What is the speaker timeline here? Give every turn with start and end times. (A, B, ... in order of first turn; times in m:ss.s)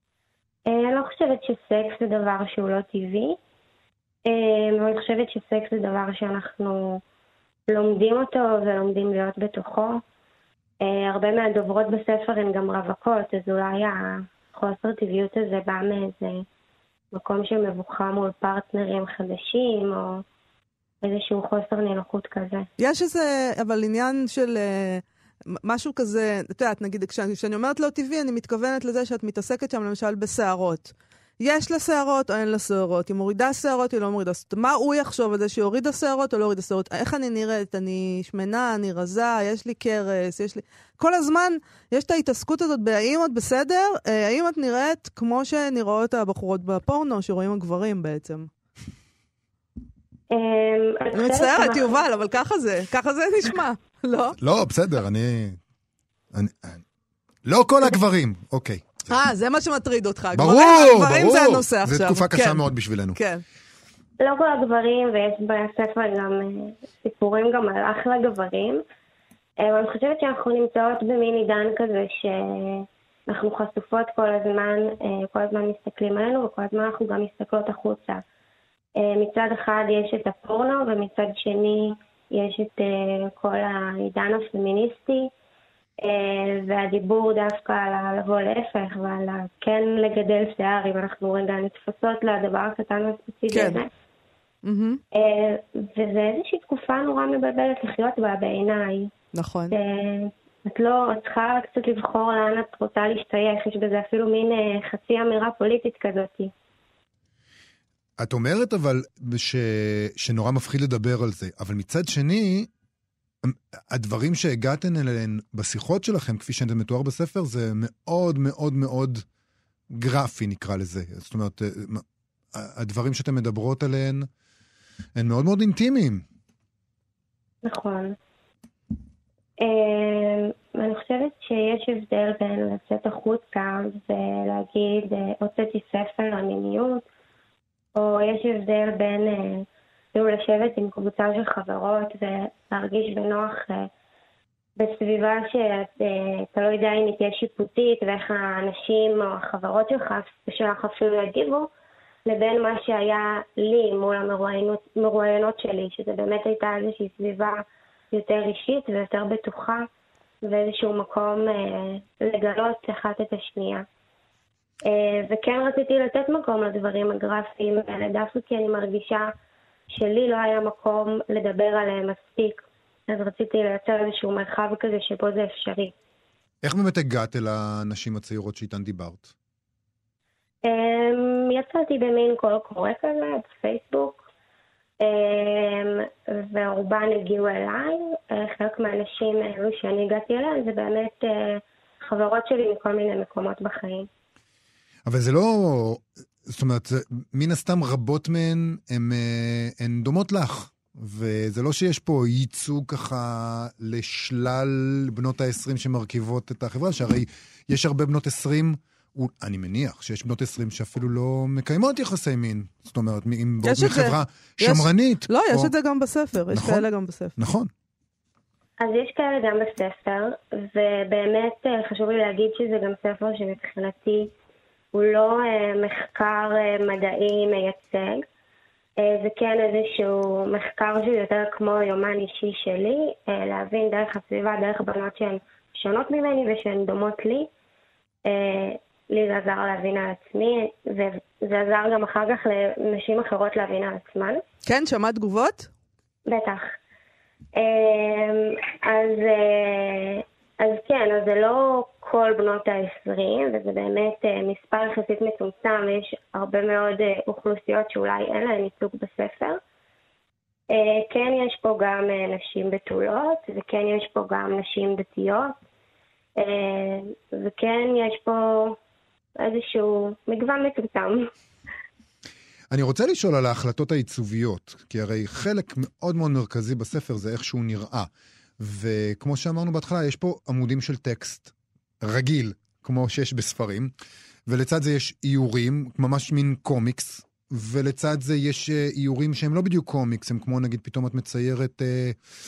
0:00.7-0:03.4 A
0:04.3-0:07.0 A
0:07.7-0:10.0 A
0:10.8-0:16.4 A
0:17.1-0:20.2 A
0:21.0-0:22.7 A
0:22.8-0:25.0 B
0:25.6-0:48.5 B
0:50.3-0:52.0 A
0:51.1-0:54.4 B
0:54.4-0:55.6 C
0:56.3-0:56.8 C
0:57.4-0:59.1 C
0:59.1-1:03.4 B
1:00.3-1:03.2 C
1:04.2-1:08.8 A
1:09.6-1:18.2 A
1:19.0-1:25.3 A
1:26.0-1:33.9 A
1:33.5-1:33.8 B
1:34.6-1:35.0 B
1:35.1-1:39.1 A
1:39.3-1:39.8 B
1:39.7-1:46.5 A
1:48.2-1:52.7 C
1:53.4-1:59.2 C
1:59.9-2:04.3 C
2:05.2-2:06.2 C
2:07.6-2:08.2 A
2:09.6-2:17.1 A
2:17.9-2:23.9 A
2:24.8-2:31.7 A
2:32.3-2:39.9 A
2:40.4-2:43.9 A
2:44.8-2:49.3 A
2:49.9-2:55.9 A
2:56.6-2:59.3 C
3:00.6-3:04.2 A
3:05.0-3:14.1 A
3:15.1-3:35.7 C
3:33.6-3:37.4 B
3:36.5-3:36.8 C
3:37.4-3:37.7 C
3:38.8-3:44.3 A
3:44.9-3:48.3 A
3:49.0-3:57.5 A
3:58.2-4:04.4 A
4:04.6-4:05.7 B
4:06.3-4:06.8 A
4:07.6-4:19.6 A
4:20.7-4:25.6 A
4:26.4-4:28.8 A
4:29.4-4:31.3 A
4:32.7-4:43.9 C
4:44.5-4:52.2 C